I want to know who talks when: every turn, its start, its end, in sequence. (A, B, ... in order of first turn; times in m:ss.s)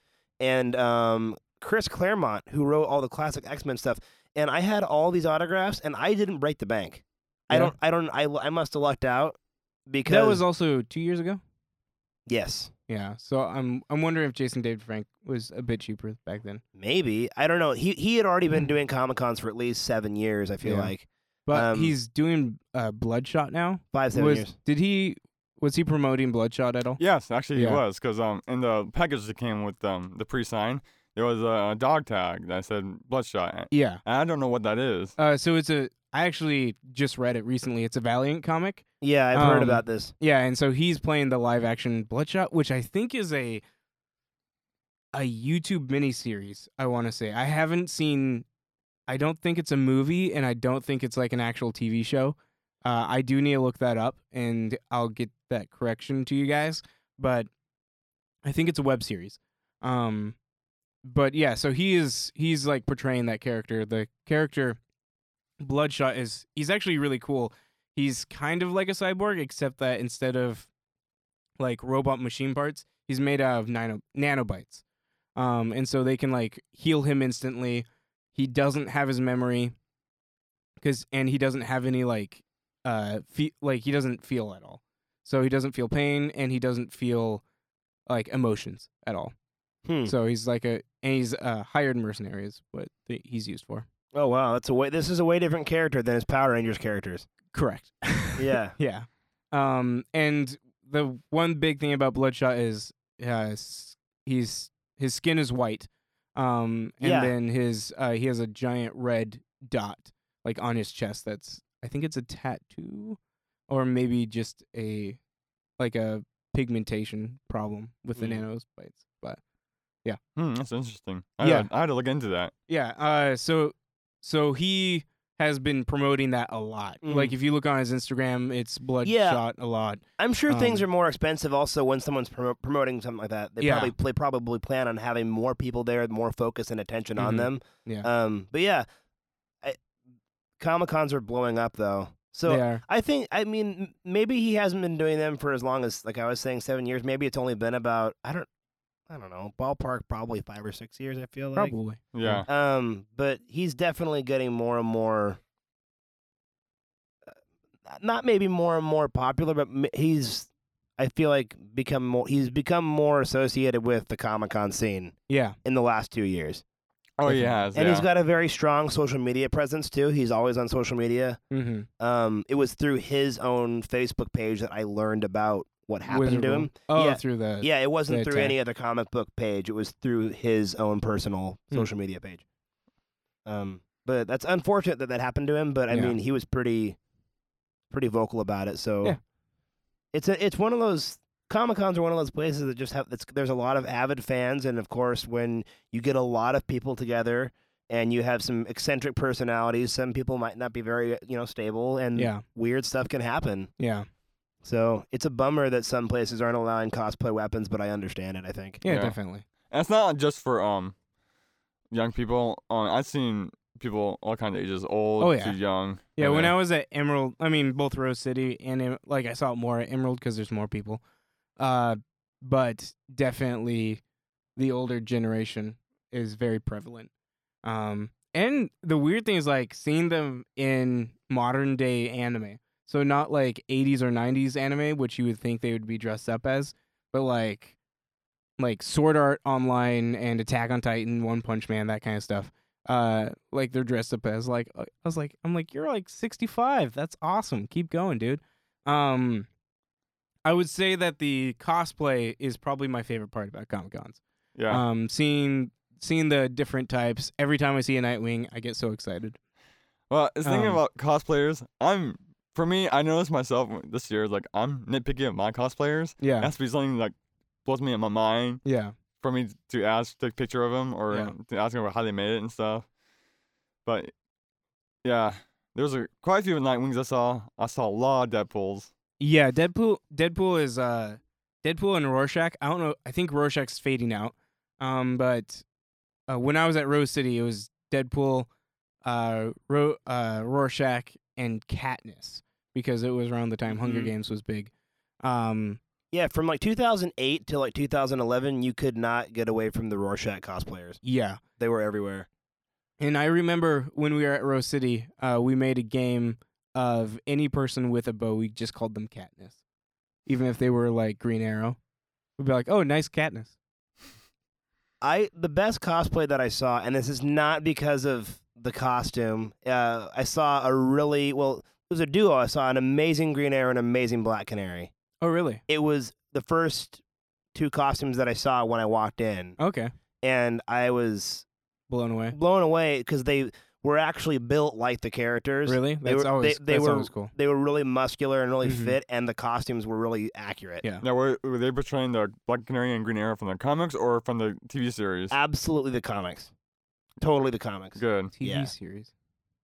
0:00.4-0:10.4 A
0:10.1-0:11.4 B
0:12.3-0:12.7 A
0:12.9-0:16.6 B
0:16.8-0:21.9 A
0:20.6-0:20.9 B
0:21.5-0:27.0 B
0:23.9-0:24.5 A
0:27.0-0:35.2 C
0:27.5-0:27.8 B
0:33.7-0:34.0 B
0:35.2-0:43.6 B
0:39.0-0:40.1 A
0:45.1-0:48.4 B
0:49.1-0:57.5 B
0:58.4-1:00.4 B
1:01.0-1:04.8 B
1:05.6-1:10.7 B
1:11.6-1:14.8 B
1:15.4-1:19.7 B
1:20.8-1:27.4 B
1:28.1-1:29.3 B
1:29.8-1:30.1 A
1:30.0-1:33.8 B
1:34.1-1:37.3 A
1:37.5-1:53.2 B
1:38.4-1:38.8 A
1:47.0-1:47.3 A
1:53.7-1:55.2 B
1:55.8-1:59.4 B
2:00.4-2:02.5 C
2:01.4-2:01.7 B
2:02.7-2:10.8 B
2:07.0-2:07.3 A
2:09.0-2:09.4 A
2:10.2-2:18.8 A
2:13.6-2:13.9 B
2:17.2-2:18.1 B
2:20.6-2:28.5 A
2:22.5-2:22.8 B
2:29.1-2:31.7 A
2:31.6-2:32.4 B
2:32.1-2:32.4 C
2:32.5-2:35.4 A
2:37.9-2:46.6 A
2:45.3-2:45.5 B
2:47.2-2:48.1 C
2:47.2-2:47.6 B
2:47.7-2:51.4 A
2:51.5-2:51.9 B
2:52.0-3:02.4 A
2:56.1-2:58.5 B
3:03.4-3:07.0 A
3:05.9-3:06.2 B
3:07.9-3:09.2 A
3:10.1-3:23.7 A
3:22.2-3:22.4 B
3:23.8-3:24.1 B
3:24.6-3:28.8 A
3:28.8-3:29.4 B
3:28.8-3:29.2 C
3:29.7-3:30.9 C
3:31.9-3:36.5 C
3:35.2-3:35.6 B
3:36.1-3:41.0 B
3:41.6-3:44.0 B
3:44.6-3:47.1 B
3:47.6-3:57.8 B
3:58.6-4:09.5 B
4:10.4-4:19.4 B
4:14.5-4:14.8 C
4:20.1-4:28.6 C
4:20.4-4:20.8 B
4:26.2-4:26.5 B
4:28.6-4:28.9 B
4:29.2-4:32.9 C
4:33.8-4:34.1 C
4:35.0-4:38.9 C
4:39.2-4:45.6 B
4:46.3-4:48.5 B
4:49.0-4:54.7 B
4:53.7-4:54.1 A
4:55.2-4:55.8 B
4:56.1-5:01.0 A
5:01.0-5:01.4 B
5:01.6-5:02.3 A
5:03.0-5:09.5 B
5:10.2-5:11.8 B
5:12.4-5:13.5 B
5:15.0-5:24.9 A
5:25.2-5:25.6 B
5:25.7-5:27.0 A
5:27.5-5:29.6 A
5:29.6-5:29.9 B
5:30.2-5:31.4 A
5:31.9-5:32.4 B
5:32.3-5:40.8 A
5:35.7-5:37.3 B
5:38.6-5:39.0 B
5:41.0-5:45.3 C
5:45.3-5:46.5 A
5:47.2-5:48.7 A
5:48.0-5:48.3 C
5:48.4-5:49.1 B